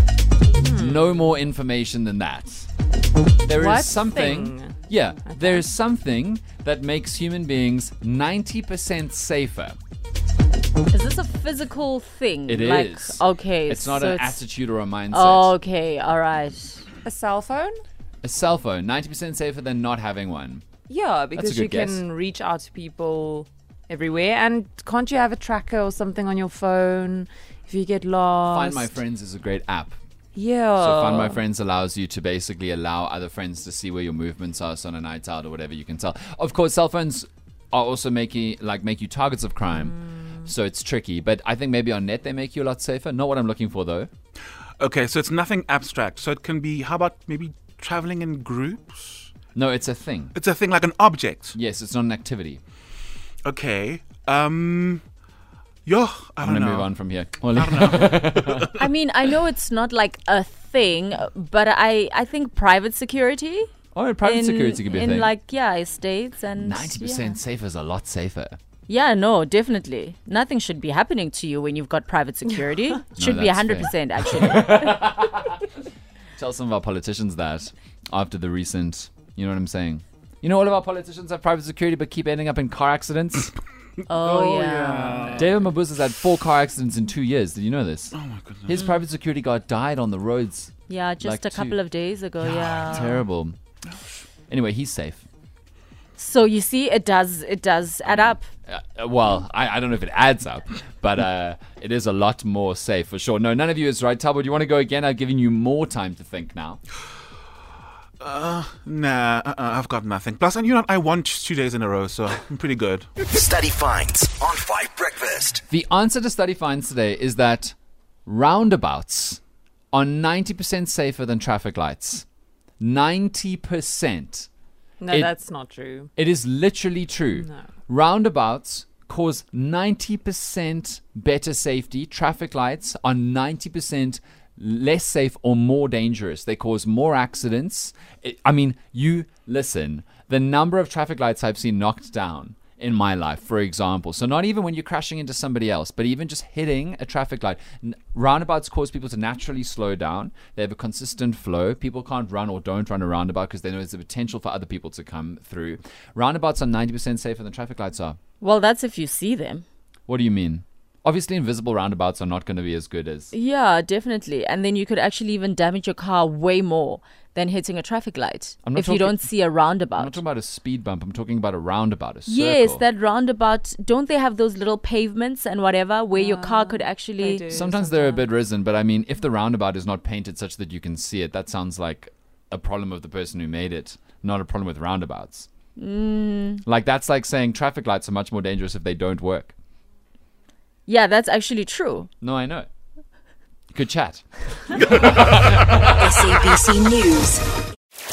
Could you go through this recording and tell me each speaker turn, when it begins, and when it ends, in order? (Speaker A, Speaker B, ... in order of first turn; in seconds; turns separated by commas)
Speaker A: 0.6-1.0, Speaker B: 0.7-2.7, Speaker B: 3.5-9.8, Speaker A: 3.5-4.7, Speaker A: 5.3-5.6, Speaker C: 10.9-14.4, Speaker B: 12.5-15.5, Speaker C: 15.1-16.8, Speaker A: 17.0-17.8, Speaker B: 18.2-20.6, Speaker A: 20.9-28.9, Speaker B: 21.3-22.0, Speaker B: 28.5-30.0, Speaker A: 30.3-31.4, Speaker B: 30.8-44.1, Speaker D: 44.8-49.3, Speaker B: 49.5-50.3, Speaker D: 50.3-51.5, Speaker B: 51.5-52.6, Speaker D: 53.4-55.0, Speaker D: 55.9-56.9, Speaker B: 56.4-58.7, Speaker D: 57.5-58.8, Speaker C: 58.8-63.7, Speaker B: 63.9-65.3, Speaker C: 64.2-67.3, Speaker B: 66.6-68.6, Speaker C: 68.9-75.1, Speaker B: 73.2-75.6, Speaker B: 76.4-83.5, Speaker C: 84.1-85.4, Speaker D: 84.1-85.5, Speaker B: 85.3-91.8, Speaker D: 88.1-88.8, Speaker C: 90.9-93.2, Speaker D: 92.5-93.1, Speaker B: 92.6-93.5, Speaker B: 94.5-95.2, Speaker C: 96.2-98.5, Speaker B: 98.7-106.8, Speaker D: 108.2-113.1, Speaker E: 113.2-115.6, Speaker B: 115.7-117.7, Speaker B: 118.2-119.4, Speaker B: 119.9-122.2, Speaker B: 122.8-124.5, Speaker A: 125.0-126.1, Speaker B: 126.2-158.2, Speaker C: 158.4-159.6, Speaker B: 160.1-163.3, Speaker C: 163.3-170.2, Speaker B: 168.6-169.3, Speaker B: 169.9-172.8, Speaker C: 172.3-177.6, Speaker A: 176.1-178.2, Speaker B: 177.5-185.5, Speaker C: 185.8-186.6, Speaker B: 186.6-189.5, Speaker C: 190.9-192.1, Speaker B: 192.2-192.7, Speaker B: 193.7-196.1, Speaker A: 196.0-197.0, Speaker C: 196.2-197.4